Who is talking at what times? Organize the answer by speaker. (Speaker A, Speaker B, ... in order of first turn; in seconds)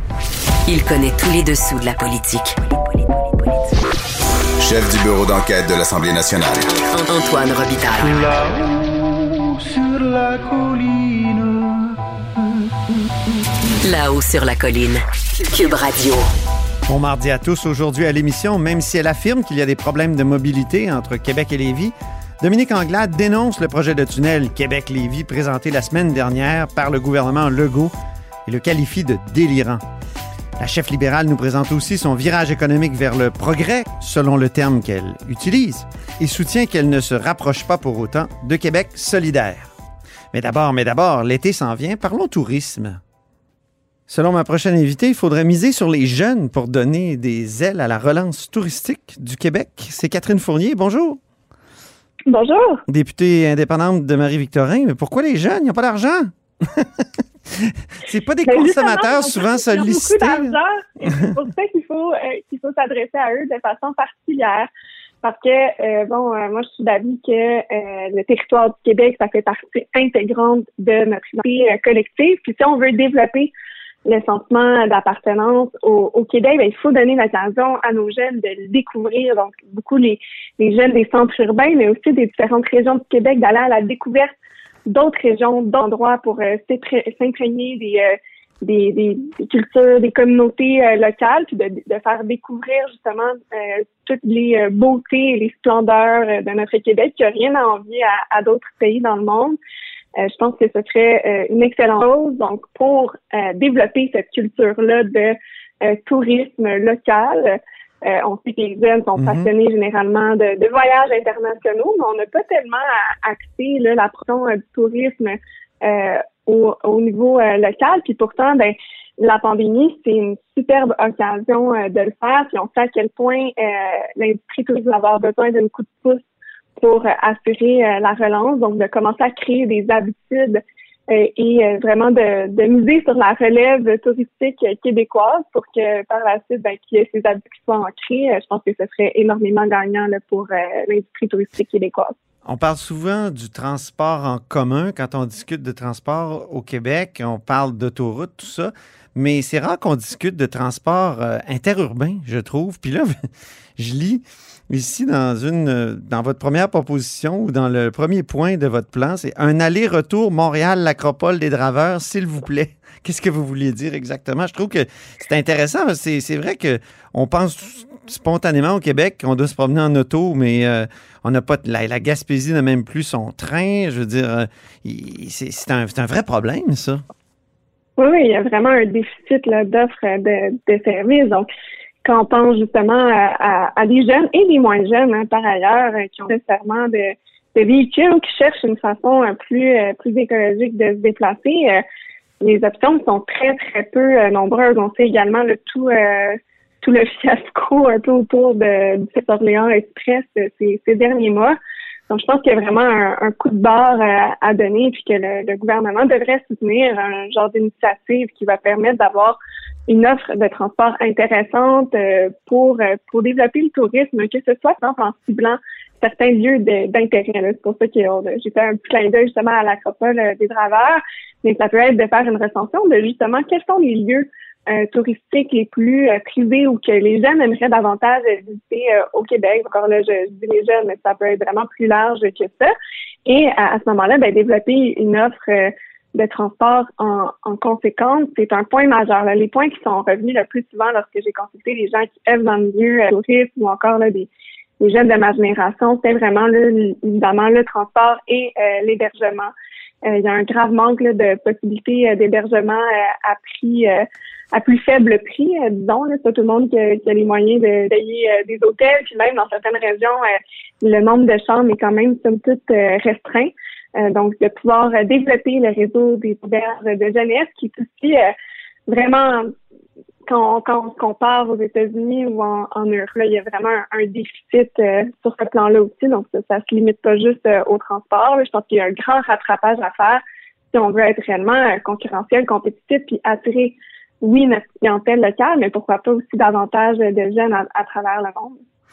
Speaker A: 0.7-3.8, 6.8-8.3, 13.8-16.3
Speaker B: 4.6-6.7
Speaker C: 8.0-11.9
Speaker D: 16.9-27.9, 28.5-29.8, 30.6-39.7, 40.3-43.0, 44.1-51.2, 52.9-61.3, 109.2-109.5, 142.4-177.0
Speaker E: 52.3-52.8, 58.5-64.7, 65.2-73.5, 74.1-84.3, 84.9-99.6, 100.2-126.2, 126.8-142.2, 178.0-181.5, 182.0-191.8, 192.4-201.6, 202.1-232.7, 233.3-244.3, 244.8-249.5, 250.1-268.3, 268.9-269.5, 270.3-280.2, 280.7-288.6